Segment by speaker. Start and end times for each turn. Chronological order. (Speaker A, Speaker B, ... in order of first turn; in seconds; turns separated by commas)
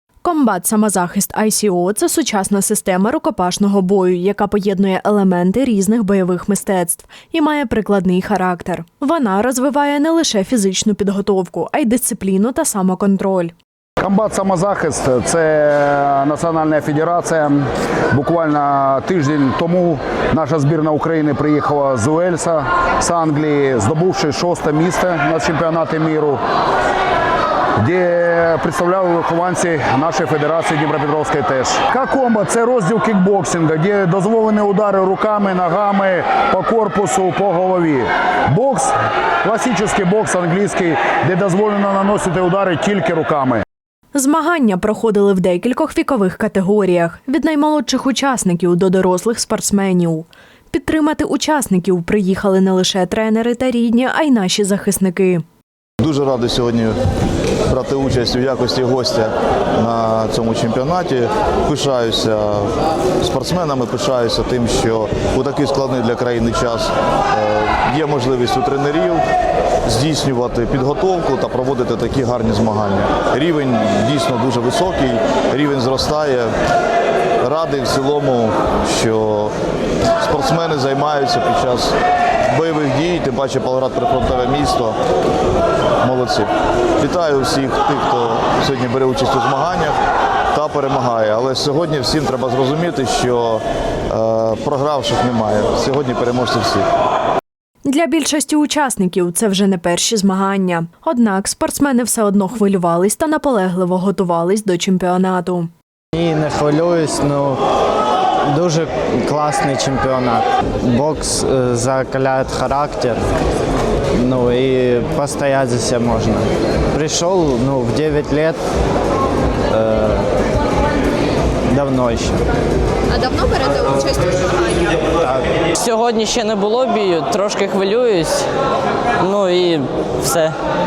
Speaker A: 0.2-13.5, Speaker B: 14.0-26.4, Speaker B: 27.8-43.6, Speaker A: 44.1-55.4, Speaker C: 56.0-57.0, Speaker C: 57.7-62.7, Speaker C: 63.2-69.2, Speaker C: 69.9-76.5, Speaker C: 77.4-79.5, Speaker C: 80.2-81.9, Speaker C: 82.5-85.0, Speaker C: 86.0-89.9, Speaker C: 90.5-96.8, Speaker A: 97.8-105.7, Speaker D: 106.1-107.6, Speaker D: 108.4-113.3, Speaker D: 114.1-118.6, Speaker D: 119.7-120.3, Speaker D: 121.7-122.4, Speaker E: 123.1-125.0, Speaker D: 125.2-125.5, Speaker F: 125.7-128.5, Speaker F: 129.2-130.6